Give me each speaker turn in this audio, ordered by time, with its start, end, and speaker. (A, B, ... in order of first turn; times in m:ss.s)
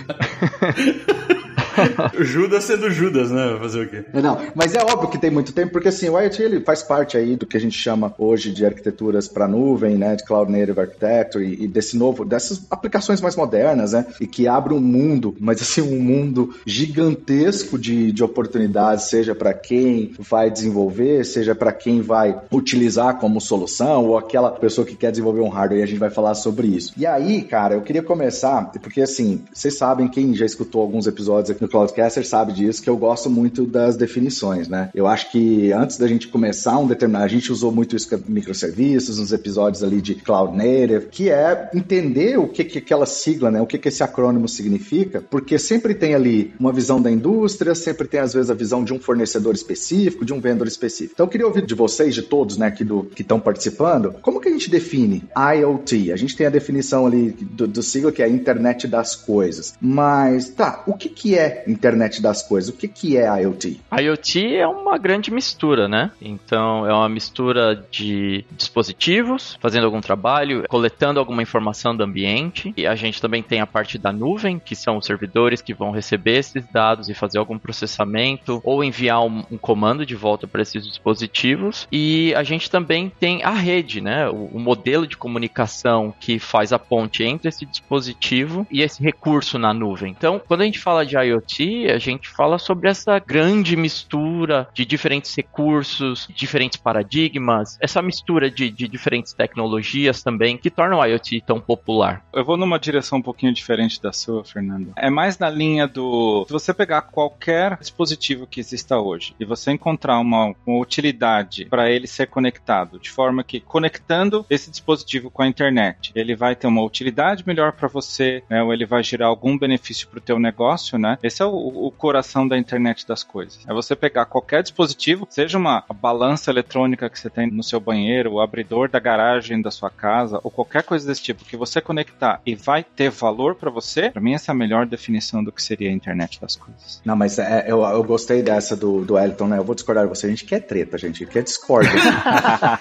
0:00.7-0:04.1 A
0:01.8-0:02.1 B
0:04.1-1:03.8 C
1:03.9-1:42.2 B
1:42.3-2:17.0 D
2:17.0-2:22.5 C